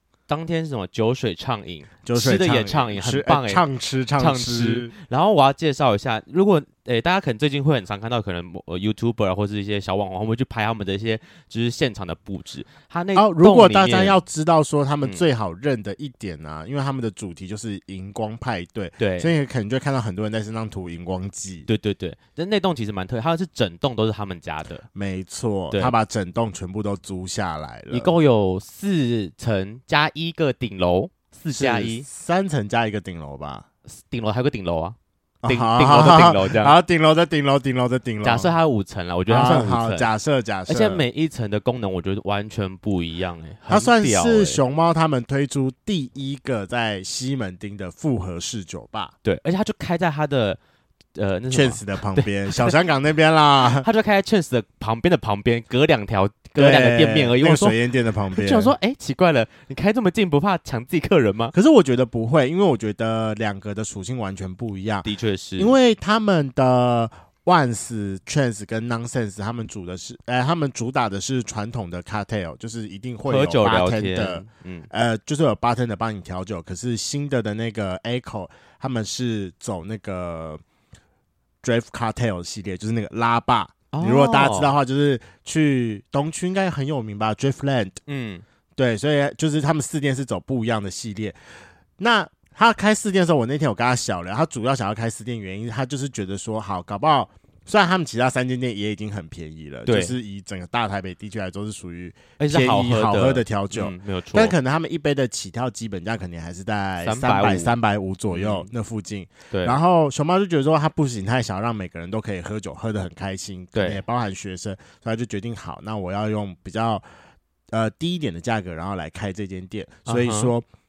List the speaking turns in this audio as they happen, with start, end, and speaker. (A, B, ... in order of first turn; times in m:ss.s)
0:00.3-0:03.6 A
0:02.0-0:04.9 B
0:04.2-0:14.2 A
0:13.1-0:21.7 B
0:19.0-0:19.3 A
0:21.7-0:24.8 A
0:24.9-0:28.1 B
0:27.9-0:32.0 A
0:31.5-0:33.6 B
0:33.9-0:35.0 A
0:35.4-0:38.5 B
0:35.5-0:36.7 A
0:38.2-0:40.1 A
0:39.3-0:41.0 B
0:40.7-0:44.6 A
0:43.7-0:49.1 B
0:49.2-0:50.6 A
0:51.1-0:52.7 A
0:51.5-0:53.8 B
0:53.6-0:57.8 A
0:56.6-0:58.7 B
0:58.3-1:01.5 A
1:01.5-1:20.6 B
1:05.0-1:05.8 A
1:13.2-1:14.9 A
1:21.6-1:28.0 B
1:23.9-1:24.7 A
1:28.1-1:28.4 A
1:28.8-1:31.4 B
1:32.0-1:57.0 B
1:39.8-1:40.1 A
1:42.4-1:44.5 A
1:47.0-1:47.7 A
1:48.3-1:48.7 A
1:49.5-1:49.8 A
1:53.7-1:54.0 A
1:57.7-2:00.6 B
2:00.0-2:00.5 A